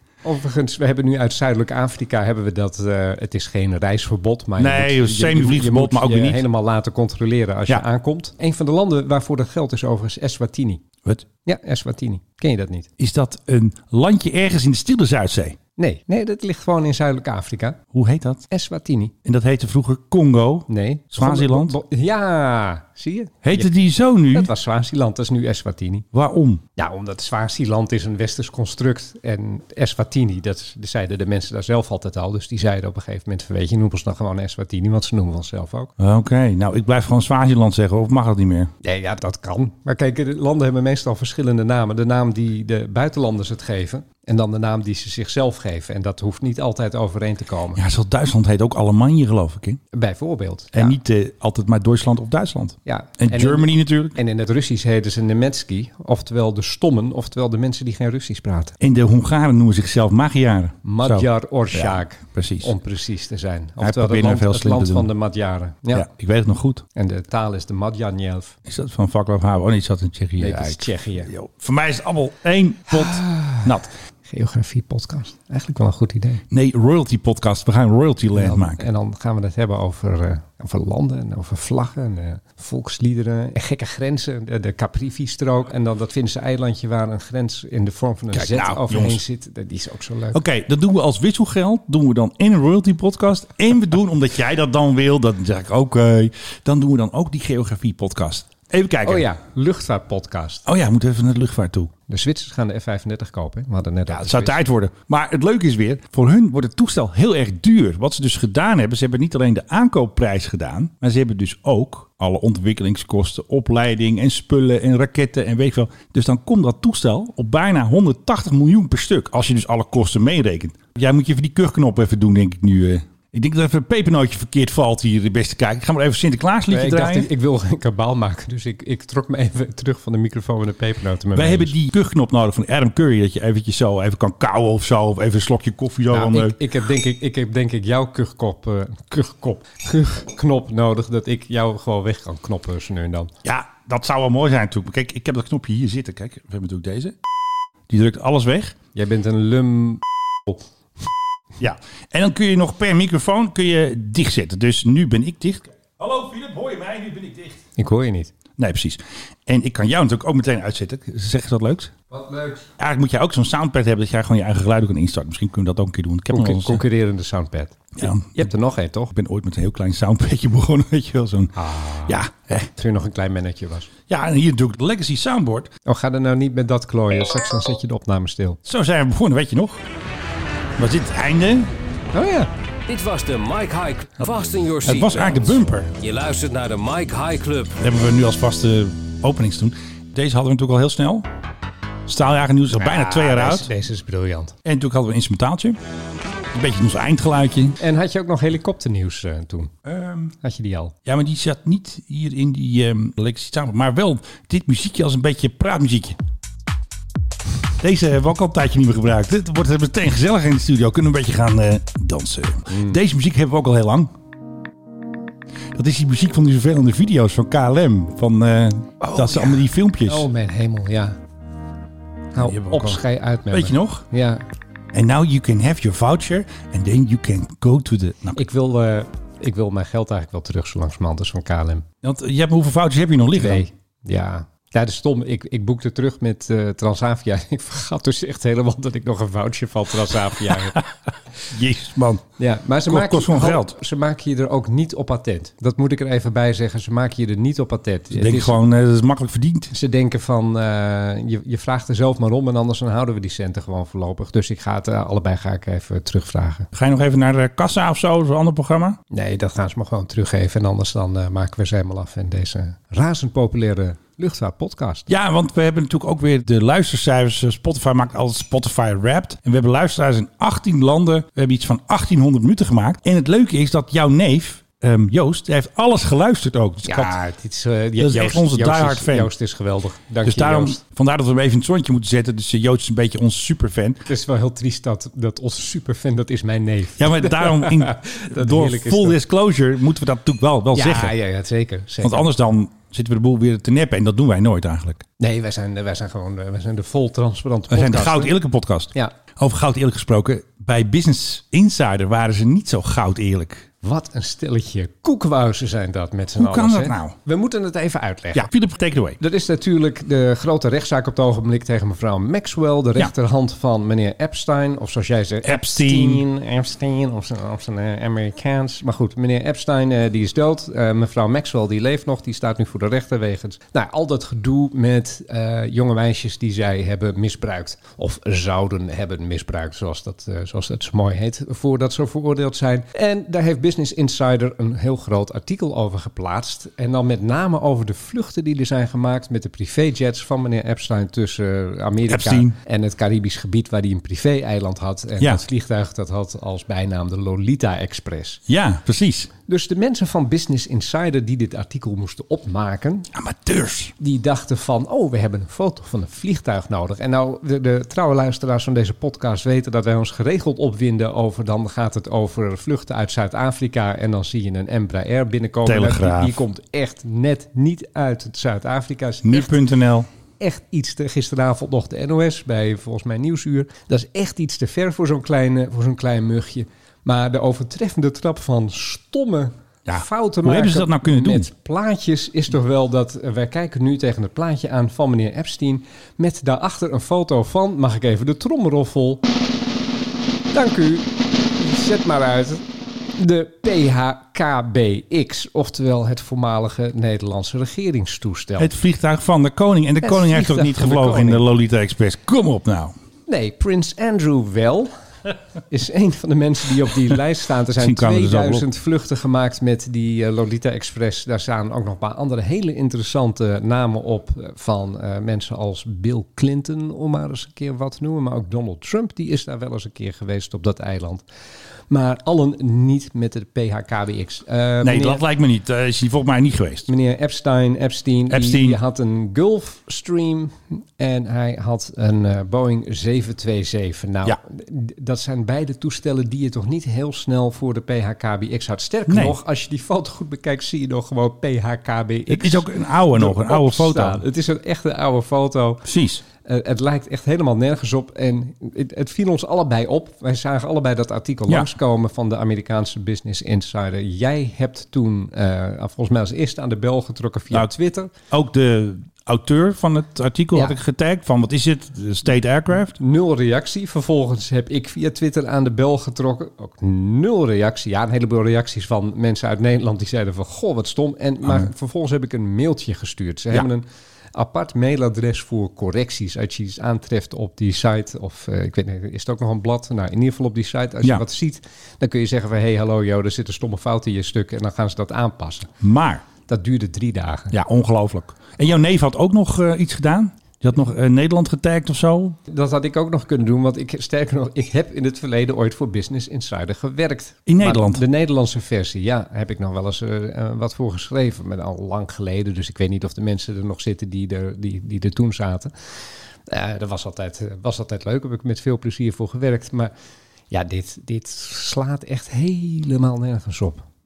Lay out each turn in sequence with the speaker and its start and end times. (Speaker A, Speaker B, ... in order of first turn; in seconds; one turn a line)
Speaker A: 0.2-10.8
Speaker B: 4.6-6.4
Speaker A: 11.4-12.9
Speaker B: 13.0-15.6
Speaker A: 15.8-17.8
Speaker B: 17.9-18.4
Speaker A: 18.5-19.1
Speaker B: 19.2-21.8
Speaker A: 20.7-23.7
Speaker B: 23.4-24.5
Speaker A: 24.3-26.1
Speaker B: 26.1-26.6
Speaker A: 26.8-35.9
Speaker B: 36.0-38.7
Speaker A: 38.8-47.8
Speaker B: 47.7-49.8
Speaker A: 49.9-51.0
Speaker B: 50.7-54.1
Speaker A: 52.9-58.8
Speaker B: 58.8-62.7
Speaker A: 60.8-66.1
Speaker B: 63.8-65.1
Speaker B: 65.9-66.8
Speaker A: 66.9-68.5
Speaker B: 68.7-73.9
Speaker A: 70.4-71.3
Speaker A: 72.9-76.4
Speaker B: 76.5-78.8
Speaker A: 78.3-90.4
Speaker B: 88.3-89.2
Speaker B: 90.3-99.3
Speaker A: 99.0-100.6
Speaker B: 100.7-101.9
Speaker A: 102.1-104.6
Speaker B: 104.1-127.3
Speaker A: 126.7-131.7
Speaker B: 131.3-136.6
Speaker A: 136.1-143.3
Speaker B: 143.4-147.1
Speaker B: 147.9-148.8
Speaker A: 148.9-150.6
Speaker B: 151.6-157.6
Speaker A: 157.8-158.3
Speaker B: 158.6-161.9
Speaker A: 162.1-162.6
Speaker B: 162.7-166.8
Speaker A: 166.3-169.1
Speaker B: 168.0-168.5
Speaker B: 169.1-172.7
Speaker A: 171.5-172.2
Speaker A: 172.8-173.9
Speaker B: 174.1-175.7
Speaker A: 175.8-178.6
Speaker B: 178.6-179.8
Speaker B: 180.8-181.7
Speaker A: 182.1-182.5
Speaker C: 182.9-187.7
Speaker B: 184.8-185.9
Speaker B: 187.8-191.3
Speaker B: 192.1-193.7
Speaker A: 192.7-194.5
Speaker B: 194.6-195.8
Speaker B: 196.5-197.8
Speaker A: 197.8-199.7
Speaker B: 199.8-200.3
Speaker A: 200.4-200.9
Speaker B: 201.1-206.2
Speaker B: 207.8-214.1
Speaker A: 212.7-213.0
Speaker B: 215.7-220.3
Speaker A: 219.0-221.2
Speaker A: 222.3-224.4
Speaker B: 222.3-224.0
Speaker B: 224.9-228.4
Speaker A: 228.3-231.8
Speaker B: 232.0-233.7
Speaker A: 233.3-240.8
Speaker B: 240.5-240.8
Speaker B: 241.5-242.2
Speaker A: 242.4-248.6
Speaker B: 242.8-243.7
Speaker B: 248.1-249.7
Speaker A: 249.7-256.7
Speaker B: 256.7-259.0
Speaker A: 259.1-265.1
Speaker B: 265.1-277.2
Speaker A: 276.8-280.8
Speaker B: 278.0-279.3
Speaker B: 280.2-284.0
Speaker A: 284.1-289.2
Speaker B: 287.0-291.1
Speaker A: 290.7-292.3
Speaker B: 292.0-295.0
Speaker A: 295.2-298.3
Speaker B: 297.7-303.7
Speaker A: 303.8-308.5
Speaker B: 306.4-307.1
Speaker B: 308.3-309.2
Speaker A: 309.2-348.4
Speaker B: 315.4-316.2
Speaker B: 342.1-342.5
Speaker B: 348.5-349.3
Speaker A: 349.5-353.1
Speaker B: 353.1-353.9
Speaker A: 354.0-369.6
Speaker B: 365.6-366.4
Speaker B: 369.2-370.1
Speaker A: 370.4-389.2
Speaker B: 379.9-381.5
Speaker A: 390.5-392.6
Speaker A: 393.1-398.7
Speaker B: 398.6-402.9
Speaker A: 400.0-401.4
Speaker A: 403.3-404.9
Speaker A: 405.7-421.2
Speaker B: 407.8-408.7
Speaker A: 421.9-425.2
Speaker B: 424.8-426.9
Speaker A: 426.9-445.8
Speaker B: 428.3-428.8
Speaker B: 439.1-439.4
Speaker B: 442.3-444.2
Speaker B: 445.8-446.2
Speaker A: 446.4-458.1
Speaker B: 458.3-463.0
Speaker A: 463.0-485.7
Speaker B: 485.8-486.2
Speaker A: 486.5-487.5
Speaker B: 487.5-492.4
Speaker A: 492.5-505.7
Speaker B: 497.5-498.0
Speaker A: 506.5-509.9
Speaker A: 510.5-513.8